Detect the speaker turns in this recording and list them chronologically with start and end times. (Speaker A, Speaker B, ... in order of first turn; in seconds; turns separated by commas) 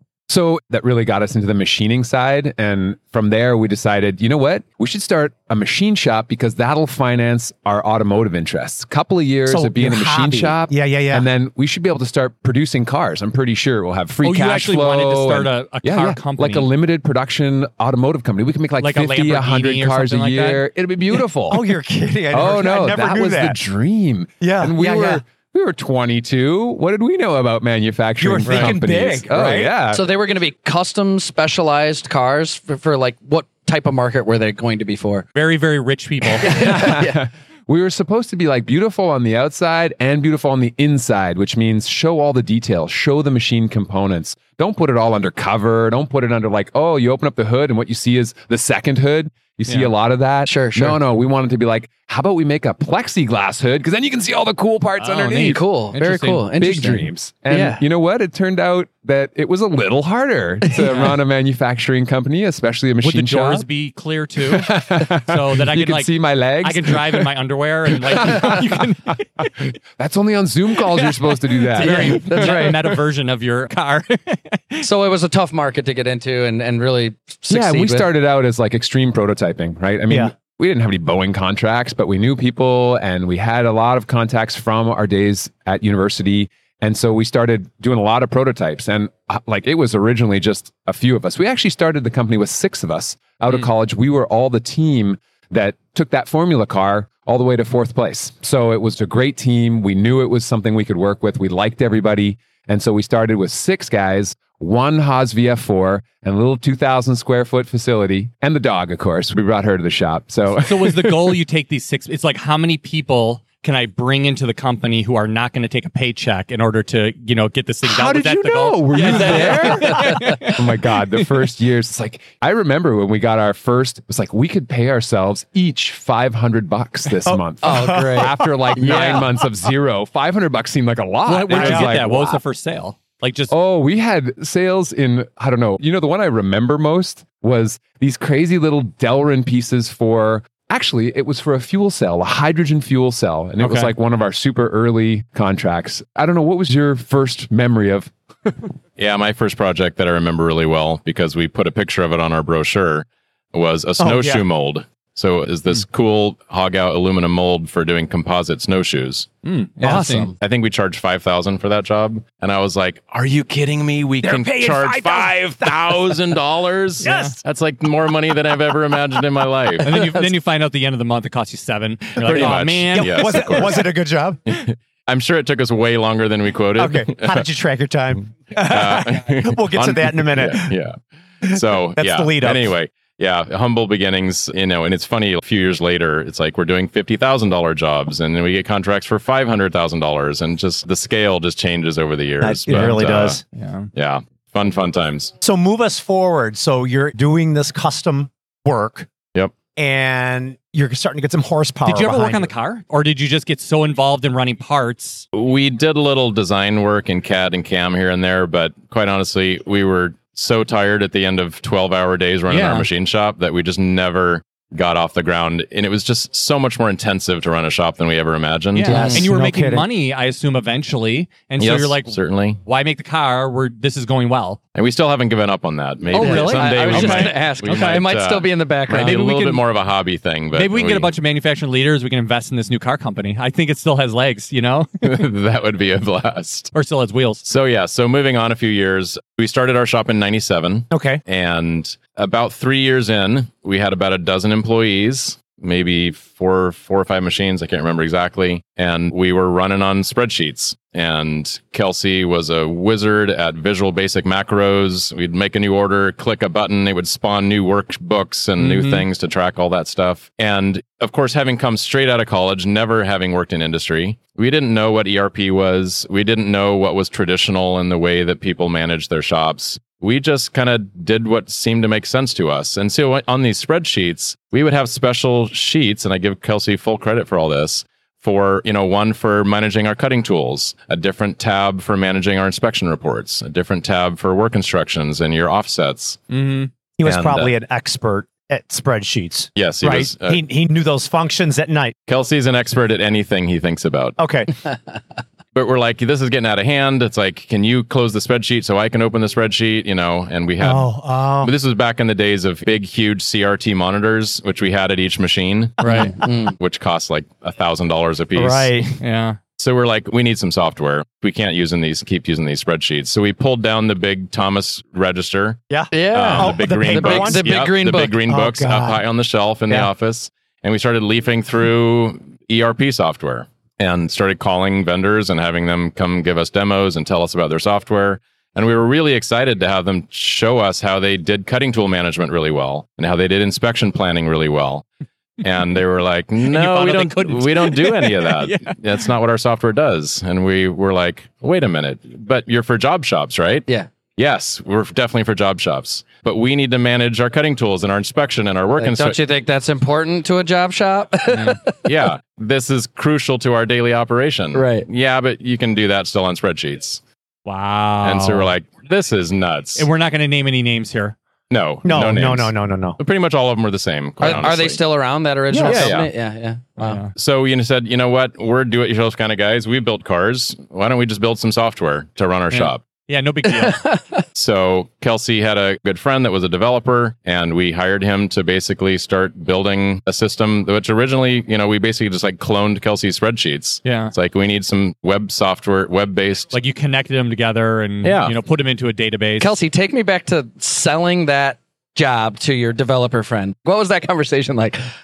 Speaker A: 0.3-21.7, Speaker B: 9.5-11.3, Speaker C: 14.2-16.7, Speaker C: 18.8-20.6, Speaker B: 21.5-23.6, Speaker A: 22.3-30.0, Speaker B: 24.4-25.2, Speaker B: 28.2-29.8, Speaker D: 29.9-35.3, Speaker C: 35.3-36.9, Speaker D: 36.4-37.2, Speaker A: 36.4-55.6, Speaker C: 49.7-49.9, Speaker D: 50.4-51.0, Speaker C: 55.0-56.5, Speaker D: 55.4-57.8, Speaker A: 56.5-63.7, Speaker C: 60.8-61.1, Speaker C: 63.0-69.5, Speaker A: 64.4-67.3, Speaker A: 67.9-72.8, Speaker C: 70.9-74.9, Speaker D: 71.8-72.8, Speaker D: 74.8-78.1, Speaker A: 77.5-111.4, Speaker C: 110.5-121.2, Speaker A: 117.8-132.4, Speaker D: 119.1-120.1, Speaker B: 127.2-128.5, Speaker D: 127.6-129.2, Speaker C: 128.9-129.2, Speaker C: 131.2-133.5, Speaker B: 131.5-132.0, Speaker A: 133.5-148.7, Speaker C: 143.6-143.9, Speaker E: 149.0-159.3, Speaker B: 154.0-154.4, Speaker C: 159.4-160.3, Speaker B: 159.8-160.3, Speaker E: 160.4-169.9, Speaker B: 164.2-166.2, Speaker B: 167.0-167.4, Speaker C: 167.0-167.4, Speaker C: 169.8-173.7, Speaker E: 172.2-173.9, Speaker B: 172.4-174.4, Speaker E: 174.5-177.4, Speaker B: 176.8-180.7, Speaker E: 178.6-193.4, Speaker B: 181.5-182.7, Speaker B: 192.4-193.4, Speaker C: 192.7-192.9, Speaker C: 193.5-193.9, Speaker E: 193.9-195.3, Speaker B: 195.4-199.1, Speaker B: 199.8-202.5, Speaker C: 201.8-205.2, Speaker E: 205.3-219.1, Speaker C: 212.5-212.9, Speaker C: 218.7-224.6, Speaker D: 218.8-219.2, Speaker B: 218.9-219.9, Speaker E: 221.6-222.6, Speaker E: 224.7-231.1, Speaker C: 226.1-228.0, Speaker D: 226.1-229.2, Speaker C: 228.9-229.6, Speaker C: 230.5-235.2, Speaker E: 235.0-236.7, Speaker C: 236.7-237.4, Speaker E: 237.4-286.2, Speaker B: 240.9-241.2, Speaker C: 258.6-259.0, Speaker C: 286.3-286.7, Speaker B: 287.0-291.9, Speaker E: 287.0-287.5, Speaker E: 289.6-290.4, Speaker E: 292.1-294.2, Speaker B: 294.2-294.5, Speaker E: 295.5-308.9, Speaker B: 300.6-301.5, Speaker C: 305.8-306.1, Speaker B: 305.8-306.1, Speaker D: 306.1-306.5, Speaker B: 308.4-308.9, Speaker C: 309.0-309.4, Speaker E: 309.6-315.6, Speaker B: 315.7-317.5, Speaker D: 315.9-318.1, Speaker E: 316.1-334.8, Speaker B: 318.3-319.0, Speaker E: 335.4-349.2, Speaker C: 336.4-338.8, Speaker D: 348.8-351.8, Speaker C: 351.3-351.6, Speaker E: 351.8-357.0, Speaker D: 354.5-354.9, Speaker C: 357.4-358.5, Speaker E: 358.0-359.9, Speaker C: 359.8-361.1, Speaker E: 361.5-364.8, Speaker B: 361.8-363.0, Speaker D: 364.2-367.0, Speaker B: 365.5-365.9, Speaker E: 365.6-366.1, Speaker C: 366.8-367.1, Speaker E: 367.1-372.8, Speaker C: 372.5-373.8, Speaker D: 373.5-374.2, Speaker E: 374.3-386.5, Speaker C: 383.8-384.1, Speaker C: 386.5-389.5, Speaker E: 388.0-388.3, Speaker D: 389.4-394.8